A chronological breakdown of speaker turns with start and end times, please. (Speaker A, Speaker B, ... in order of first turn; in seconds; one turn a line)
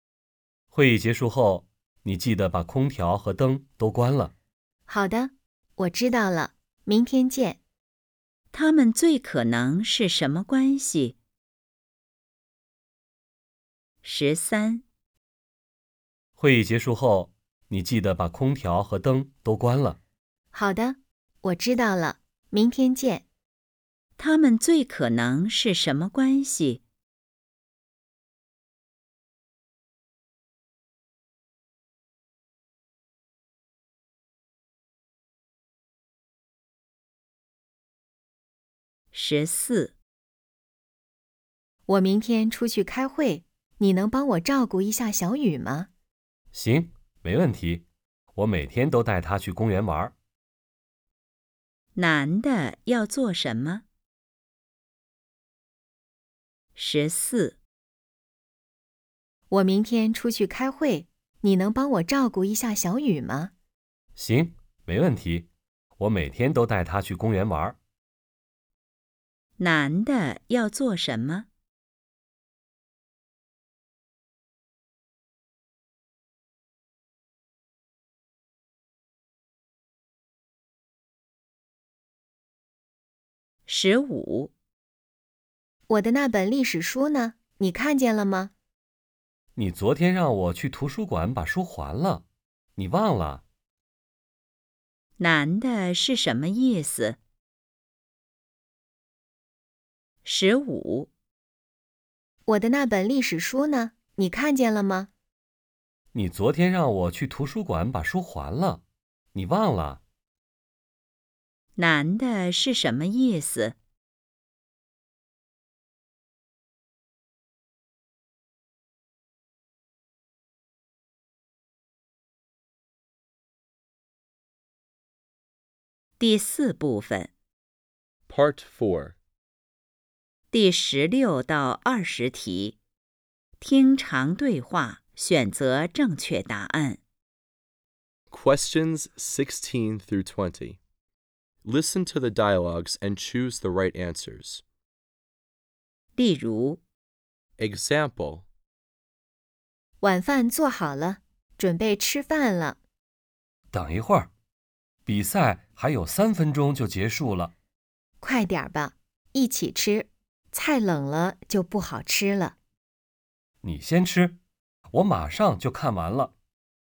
Speaker A: 0.7-4.3
Speaker B: 4.9-7.6
Speaker C: 8.5-11.2
Speaker C: 14.0-14.8
Speaker A: 16.4-20.0
Speaker B: 20.5-23.2
Speaker C: 24.2-26.8
Speaker C: 39.1-40.0
Speaker B: 41.9-45.9
Speaker A: 46.5-50.1
Speaker C: 52.0-53.8
Speaker C: 56.8-57.6
Speaker B: 59.5-63.5
Speaker A: 64.2-67.8
Speaker C: 69.6-71.5
Speaker C: 83.7-84.5
Speaker B: 85.9-88.5
Speaker A: 89.5-93.4
Speaker C: 95.2-97.2
Speaker C: 100.2-101.1
Speaker B: 102.5-105.1
Speaker A: 106.1-110.0
Speaker C: 111.8-113.8
Speaker C: 126.2-127.3
Speaker D: 128.3-129.2
Speaker C: 130.5-132.8
Speaker C: 133.6-137.0
Speaker D: 138.3-140.8
Speaker D: 141.6-144.6
Speaker C: 146.2-146.8
Speaker D: 147.6-148.5
Speaker B: 150.0-152.8
Speaker A: 153.7-154.3
Speaker A: 155.1-157.5
Speaker B: 158.2-162.5
Speaker A: 163.6-164.4
Speaker A: 164.9-166.3